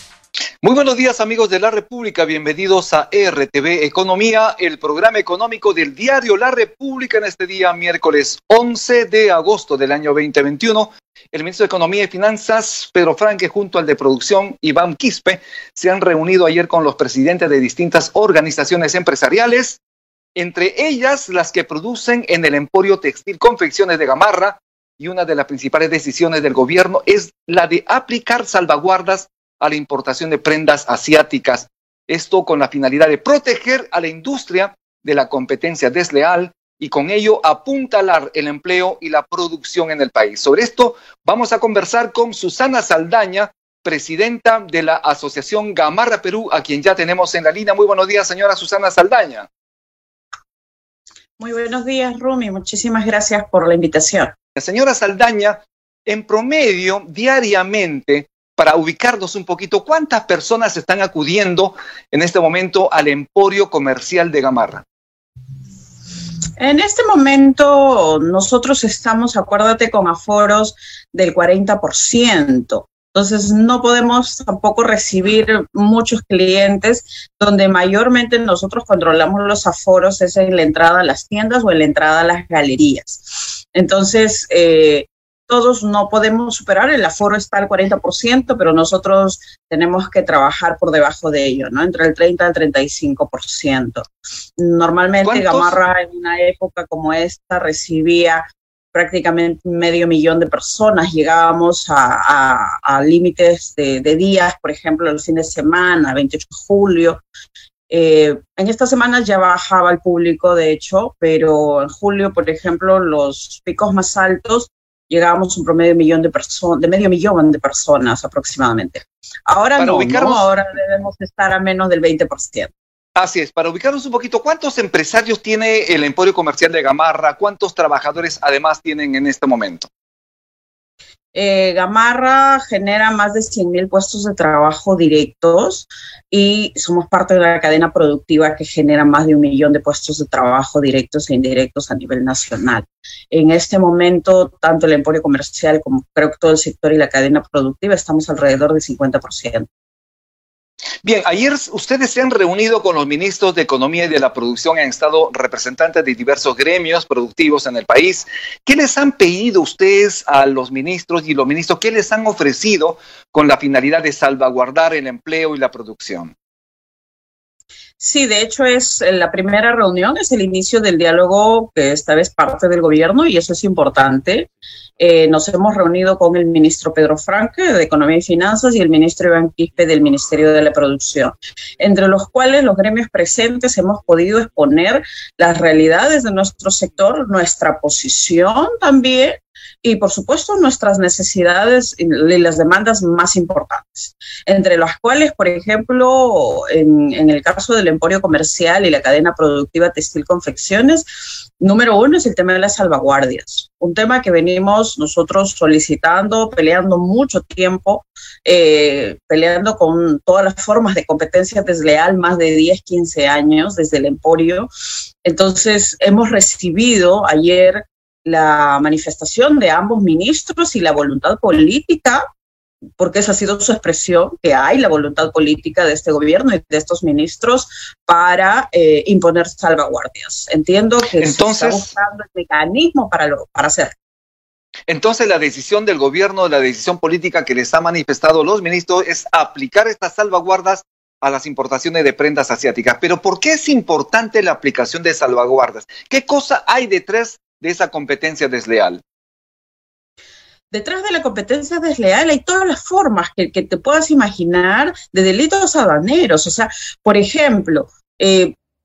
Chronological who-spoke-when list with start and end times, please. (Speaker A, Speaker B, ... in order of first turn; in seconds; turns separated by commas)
Speaker A: 0.6-19.8, Speaker A: 20.4-49.5, Speaker B: 51.4-54.3, Speaker A: 54.5-64.8, Speaker B: 66.6-107.2, Speaker A: 95.2-95.8, Speaker B: 107.9-122.7, Speaker A: 119.8-120.5, Speaker A: 123.2-129.9, Speaker B: 131.3-149.7, Speaker A: 151.0-166.3, Speaker B: 168.0-174.5, Speaker B: 175.0-201.0, Speaker B: 201.6-214.7, Speaker B: 215.2-222.2, Speaker B: 223.0-233.9, Speaker A: 231.2-231.9, Speaker A: 234.9-249.0, Speaker B: 250.7-258.5